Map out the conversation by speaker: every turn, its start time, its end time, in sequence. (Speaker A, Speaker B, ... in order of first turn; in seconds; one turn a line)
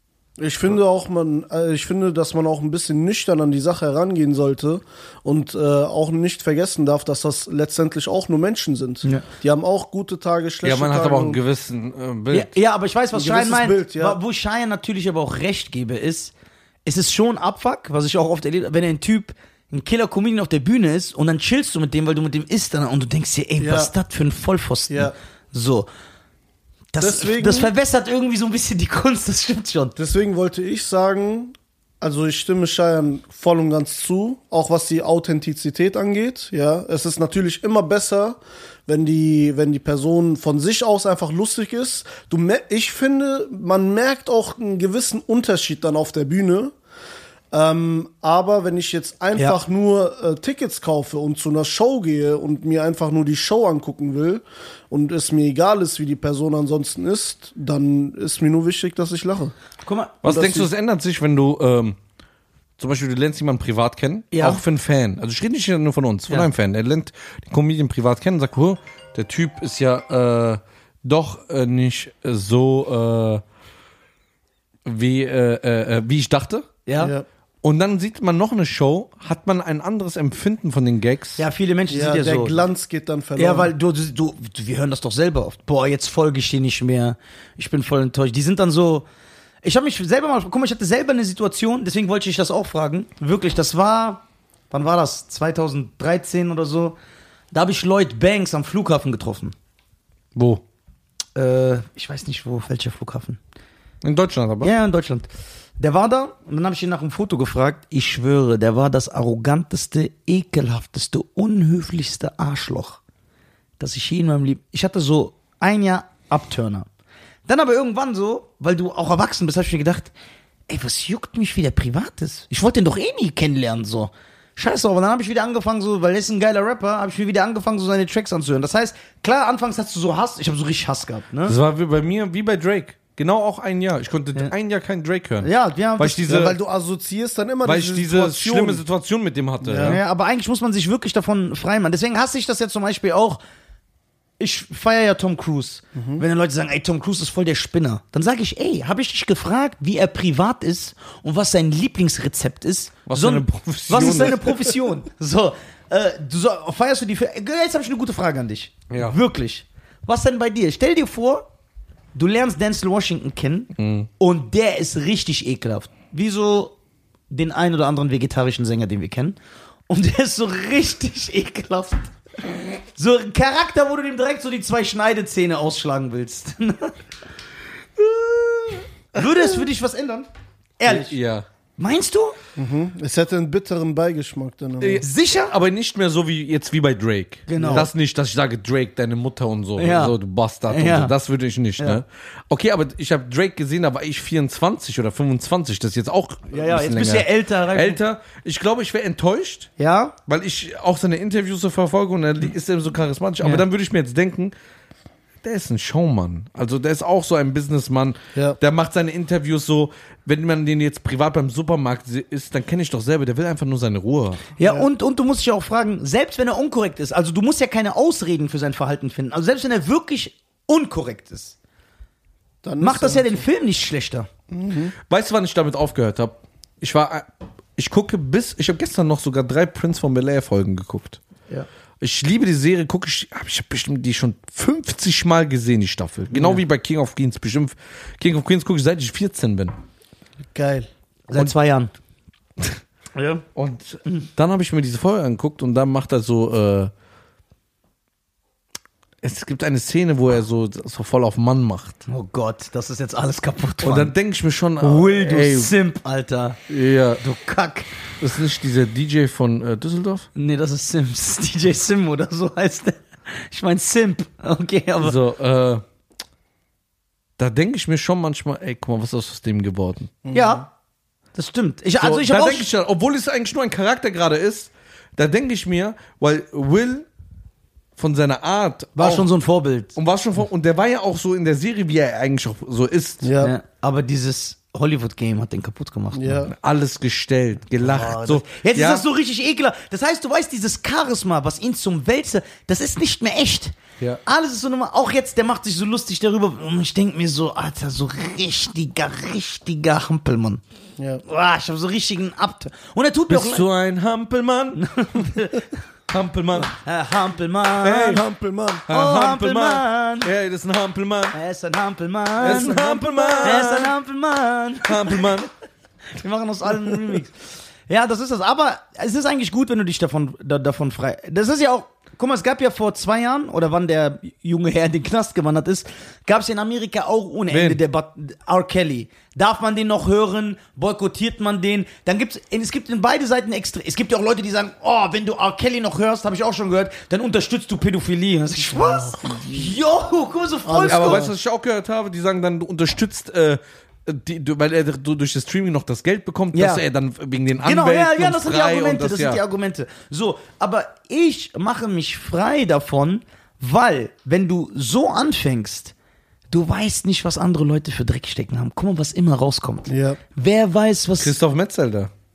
Speaker A: 0.4-11.4
Speaker B: 10.6-12.5
Speaker C: 12.3-16.3
Speaker A: 13.1-14.2
Speaker C: 16.8-25.9
Speaker A: 23.6-23.9
Speaker C: 26.9-29.9
Speaker A: 27.0-27.7
Speaker A: 29.9-46.7
Speaker A: 47.5-59.5
Speaker C: 59.8-60.2
Speaker A: 60.2-60.7
Speaker B: 60.2-62.0
Speaker B: 62.8-73.4
Speaker C: 64.3-64.6
Speaker B: 74.8-76.7
Speaker C: 76.8-77.1
Speaker A: 77.0-77.2
Speaker B: 77.6-81.4
Speaker C: 81.4-82.6
Speaker A: 81.9-83.7
Speaker C: 83.4-89.0
Speaker C: 89.6-97.0
Speaker C: 97.5-99.5
Speaker B: 100.3-100.6
Speaker C: 101.3-103.4
Speaker B: 104.0-104.7
Speaker C: 104.6-105.3
Speaker C: 105.8-113.0
Speaker C: 113.8-116.8
Speaker C: 117.5-120.1
Speaker C: 120.7-131.6
Speaker B: 131.4-136.6
Speaker C: 135.4-136.5
Speaker A: 136.3-138.8
Speaker B: 137.6-140.0
Speaker A: 139.6-140.0
Speaker C: 139.8-143.4
Speaker C: 144.4-161.4
Speaker A: 145.9-146.2
Speaker B: 153.1-154.5
Speaker B: 158.9-159.2
Speaker C: 162.1-166.7
Speaker B: 163.8-164.1
Speaker C: 167.3-169.4
Speaker C: 169.9-172.1
Speaker C: 172.9-176.9
Speaker B: 178.0-178.8
Speaker C: 179.1-180.3
Speaker C: 180.8-181.1
Speaker B: 180.8-181.4
Speaker C: 181.8-182.3
Speaker A: 182.6-185.0
Speaker B: 184.8-199.7
Speaker C: 185.0-185.5
Speaker C: 187.5-187.9
Speaker A: 187.6-187.9
Speaker C: 189.8-190.1
Speaker C: 190.7-191.1
Speaker C: 196.5-198.0
Speaker C: 199.8-200.2
Speaker B: 200.3-204.5
Speaker B: 205.4-214.4
Speaker C: 214.6-221.6
Speaker A: 214.6-214.9
Speaker A: 222.6-223.4
Speaker C: 222.8-224.3
Speaker A: 224.5-224.9
Speaker B: 225.1-231.2
Speaker B: 232.0-239.7
Speaker C: 236.3-236.6
Speaker A: 240.5-240.9
Speaker C: 241.3-241.9
Speaker C: 243.2-243.4
Speaker B: 243.5-246.9
Speaker B: 249.2-252.0
Speaker C: 252.1-254.1
Speaker B: 253.8-255.7
Speaker C: 254.8-256.6
Speaker B: 256.7-257.2
Speaker C: 257.2-257.9
Speaker B: 258.2-260.3
Speaker C: 260.4-265.1
Speaker B: 265.0-265.8
Speaker B: 267.4-270.2
Speaker A: 270.2-270.6
Speaker C: 270.3-270.6
Speaker C: 271.3-272.7
Speaker B: 272.0-277.1
Speaker B: 278.0-279.3
Speaker C: 279.0-279.9
Speaker B: 279.9-283.3
Speaker A: 283.2-283.5
Speaker C: 283.4-286.4
Speaker A: 286.1-286.5
Speaker B: 286.4-289.0
Speaker C: 287.8-293.7
Speaker C: 294.2-300.6
Speaker A: 301.0-301.2
Speaker C: 301.2-303.7
Speaker B: 303.3-304.8
Speaker C: 304.8-305.7
Speaker B: 306.1-306.7
Speaker C: 306.7-308.2
Speaker B: 307.8-308.2
Speaker A: 307.9-308.9
Speaker B: 308.9-311.4
Speaker C: 308.9-310.3
Speaker C: 311.3-315.4
Speaker B: 312.4-313.9
Speaker A: 312.4-313.5
Speaker B: 314.8-315.5
Speaker C: 316.1-317.3
Speaker C: 317.9-341.2
Speaker B: 327.5-327.8
Speaker A: 338.7-339.7
Speaker A: 340.6-341.3
Speaker B: 340.9-349.4
Speaker C: 346.5-346.8
Speaker C: 347.6-355.9
Speaker C: 356.5-361.3
Speaker A: 359.9-360.2
Speaker B: 361.2-362.1